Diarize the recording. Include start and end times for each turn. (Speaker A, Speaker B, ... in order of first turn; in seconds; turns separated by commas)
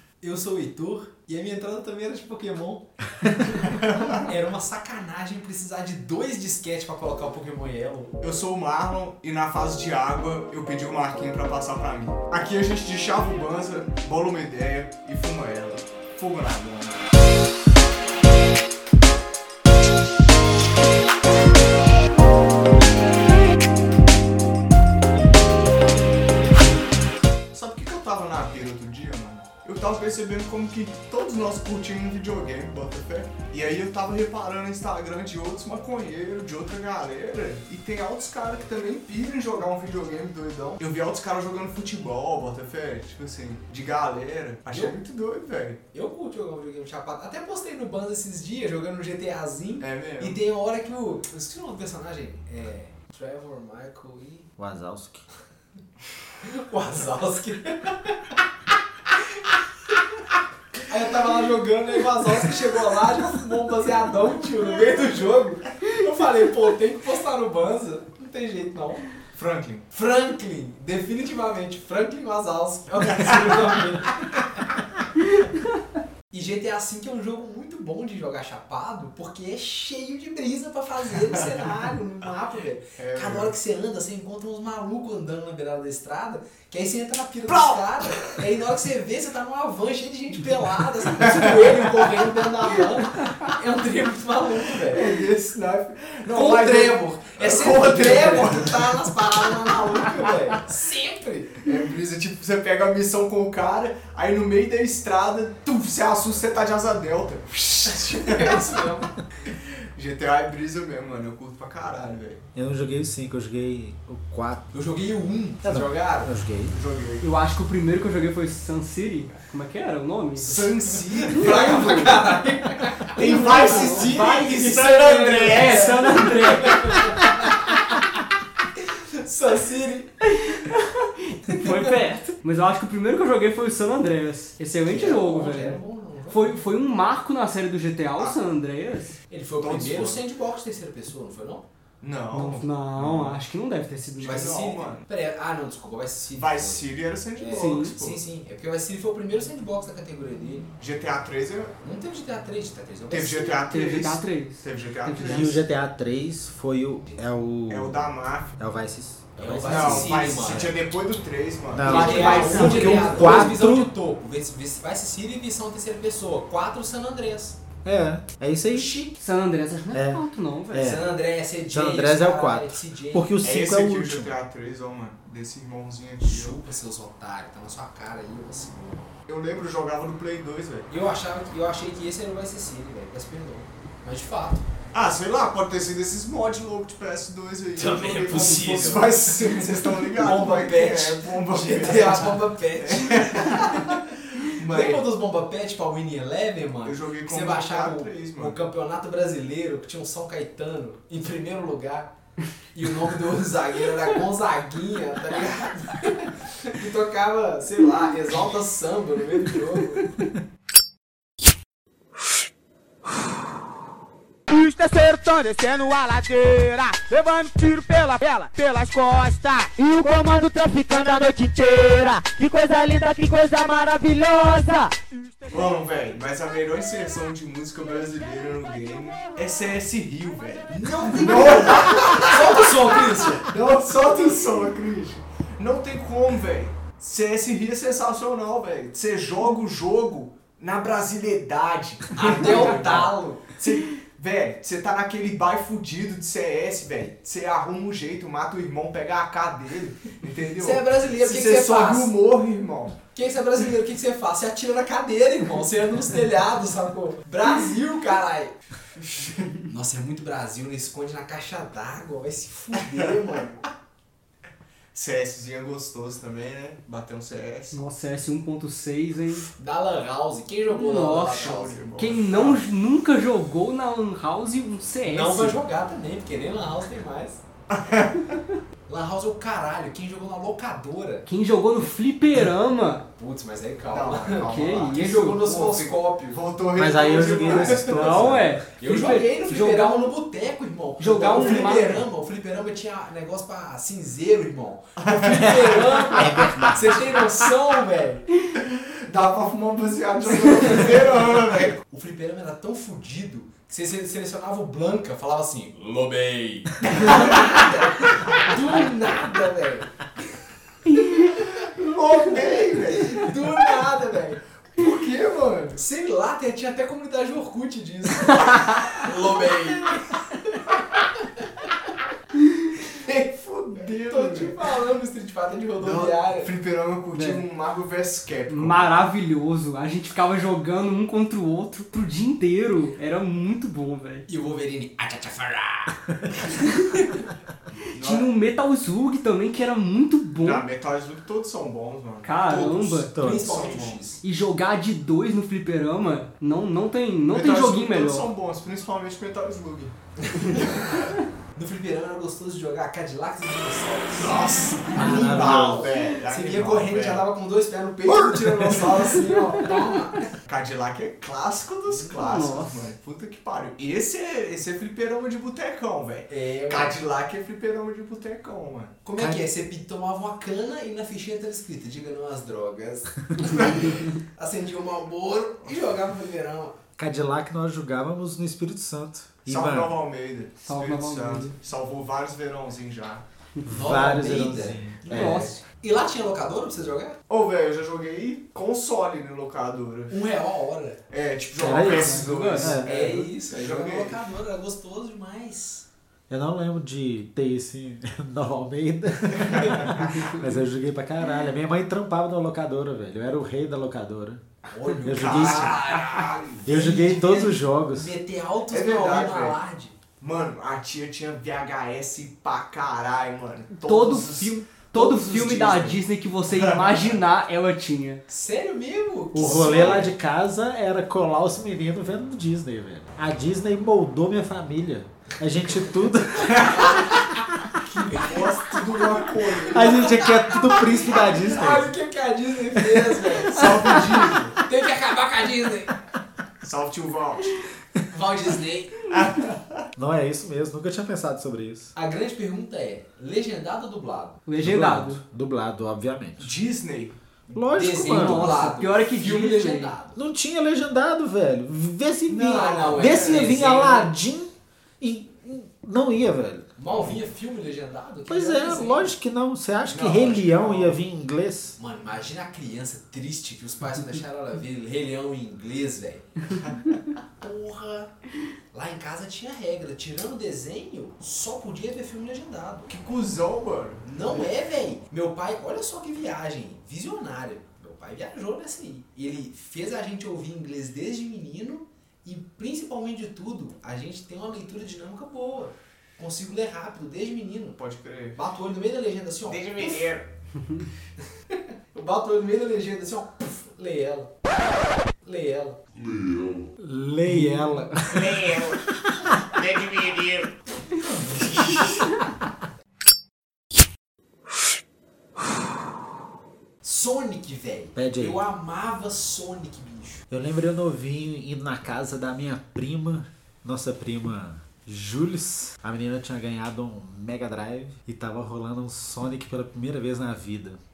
Speaker A: 0.2-2.9, Speaker B: 3.6-4.2, Speaker A: 4.1-8.1, Speaker B: 8.2-17.0, Speaker B: 27.5-45.8, Speaker A: 44.7-45.0, Speaker A: 45.9-54.5, Speaker B: 49.8-50.4, Speaker C: 54.6-55.2, Speaker A: 56.4-58.4, Speaker A: 60.9-69.1, Speaker B: 69.2-69.8, Speaker A: 69.9-74.8, Speaker A: 76.3-95.1, Speaker B: 83.0-83.5, Speaker B: 87.5-88.4, Speaker B: 91.2-92.1, Speaker B: 94.8-100.1, Speaker A: 96.3-101.6, Speaker B: 101.6-108.8, Speaker A: 107.9-109.1, Speaker B: 109.5-112.4, Speaker C: 112.5-114.7, Speaker A: 114.7-116.3, Speaker C: 115.6-116.8, Speaker B: 116.7-117.2, Speaker D: 117.2-120.6, Speaker A: 120.4-127.8, Speaker B: 121.2-122.3, Speaker D: 121.3-122.3, Speaker D: 123.2-127.0, Speaker B: 123.2-126.1, Speaker A: 128.9-130.1, Speaker D: 130.5-135.8, Speaker A: 131.5-131.8, Speaker A: 134.8-136.6, Speaker D: 136.3-139.2, Speaker A: 139.3-141.7, Speaker B: 139.6-140.2, Speaker B: 142.0-143.4, Speaker D: 142.3-144.6, Speaker B: 144.2-145.0, Speaker A: 144.2-150.7, Speaker B: 146.4-148.2, Speaker D: 147.5-147.9, Speaker B: 150.8-151.7, Speaker A: 151.8-153.6, Speaker B: 153.1-155.6, Speaker D: 153.7-155.6, Speaker C: 155.2-160.4, Speaker B: 157.7-158.6, Speaker A: 159.4-160.8, Speaker B: 159.6-163.4, Speaker C: 161.7-163.9, Speaker A: 161.8-167.6, Speaker D: 161.8-163.6, Speaker C: 167.8-168.9, Speaker A: 168.7-169.2, Speaker D: 169.2-170.9, Speaker C: 169.9-171.1, Speaker A: 170.8-173.4, Speaker C: 171.7-174.3, Speaker B: 173.4-176.6, Speaker A: 176.2-179.1, Speaker B: 179.3-180.9, Speaker A: 180.9-184.7, Speaker B: 184.9-195.1, Speaker A: 187.7-194.0, Speaker A: 194.6-202.1, Speaker B: 196.8-198.6, Speaker A: 202.7-210.2, Speaker E: 214.5-225.3, Speaker B: 225.5-253.1, Speaker A: 230.7-233.5, Speaker A: 242.1-243.6, Speaker A: 250.6-252.1, Speaker A: 253.1-258.6, Speaker B: 259.0-259.6, Speaker A: 259.6-263.6, Speaker B: 264.9-267.8, Speaker D: 267.7-269.5, Speaker A: 269.6-271.8, Speaker D: 270.7-275.6, Speaker B: 271.2-272.6, Speaker A: 275.0-277.4, Speaker B: 277.7-278.4, Speaker A: 278.9-281.3, Speaker D: 281.2-283.1, Speaker A: 283.2-286.4, Speaker B: 283.9-288.3, Speaker D: 284.4-285.4, Speaker C: 286.7-288.5, Speaker A: 287.2-298.3, Speaker D: 287.9-290.1, Speaker D: 291.0-292.0, Speaker B: 291.4-291.7, Speaker B: 295.0-296.7, Speaker B: 298.5-301.8, Speaker A: 300.4-301.2, Speaker A: 301.7-309.9, Speaker D: 310.9-311.3, Speaker B: 311.5-313.7, Speaker A: 312.9-314.4, Speaker B: 314.7-315.8, Speaker A: 315.8-321.1, Speaker B: 323.0-324.6, Speaker A: 324.0-326.5, Speaker B: 325.8-328.9, Speaker D: 327.1-327.4, Speaker D: 328.5-334.3, Speaker A: 334.3-336.4, Speaker B: 337.9-338.3, Speaker D: 337.9-340.7, Speaker B: 340.4-342.4, Speaker D: 342.2-343.2, Speaker A: 342.4-344.2, Speaker C: 343.1-343.6, Speaker B: 343.2-344.0, Speaker D: 344.2-348.3, Speaker B: 347.3-349.9, Speaker A: 350.3-360.3, Speaker B: 354.1-357.3, Speaker C: 354.9-355.9, Speaker C: 358.1-359.1, Speaker B: 360.4-368.9, Speaker D: 362.1-362.8, Speaker A: 366.3-367.0, Speaker A: 369.0-376.8, Speaker C: 369.2-369.4, Speaker B: 373.4-373.9, Speaker B: 375.6-375.9, Speaker C: 377.0-379.9, Speaker B: 379.4-383.2, Speaker D: 380.6-381.6, Speaker C: 383.6-385.5, Speaker A: 383.7-387.2, Speaker B: 385.1-385.6, Speaker D: 385.1-385.6, Speaker B: 387.3-390.2, Speaker A: 390.1-391.0, Speaker B: 391.1-394.2, Speaker A: 391.6-395.9, Speaker C: 391.6-392.9, Speaker D: 391.7-392.8, Speaker C: 396.3-404.4, Speaker B: 399.4-400.2, Speaker A: 404.7-409.9, Speaker C: 405.0-405.8, Speaker B: 405.1-405.8, Speaker C: 406.6-408.1, Speaker B: 408.7-409.6, Speaker B: 410.2-417.2, Speaker D: 413.7-418.2, Speaker A: 418.3-420.1, Speaker C: 419.3-427.6, Speaker B: 419.6-420.1, Speaker A: 426.5-427.3, Speaker A: 427.8-435.9, Speaker B: 428.3-430.2, Speaker C: 429.7-431.9, Speaker C: 432.7-434.4, Speaker B: 433.5-434.6, Speaker B: 436.6-437.6, Speaker A: 438.1-439.0, Speaker B: 439.1-439.9, Speaker C: 440.0-441.9, Speaker A: 441.9-444.4, Speaker D: 444.4-445.2, Speaker C: 444.6-446.5, Speaker B: 446.4-447.1, Speaker A: 447.5-450.2, Speaker C: 447.5-448.6, Speaker D: 448.0-449.9, Speaker C: 450.1-456.7, Speaker B: 452.3-453.7, Speaker A: 452.4-454.1, Speaker A: 456.8-459.1, Speaker C: 458.3-461.8, Speaker B: 459.9-461.0, Speaker A: 461.8-466.4, Speaker B: 466.6-467.0, Speaker A: 467.4-468.1, Speaker A: 468.7-472.9, Speaker B: 472.9-474.5, Speaker A: 474.0-487.8, Speaker B: 487.7-488.4, Speaker A: 488.4-490.1, Speaker B: 489.4-490.3, Speaker A: 491.9-494.5, Speaker A: 495.2-495.8, Speaker C: 496.8-499.8, Speaker B: 498.1-498.8, Speaker B: 499.5-500.5, Speaker C: 501.4-501.9, Speaker A: 506.8-510.2, Speaker C: 507.9-508.4, Speaker C: 510.3-520.8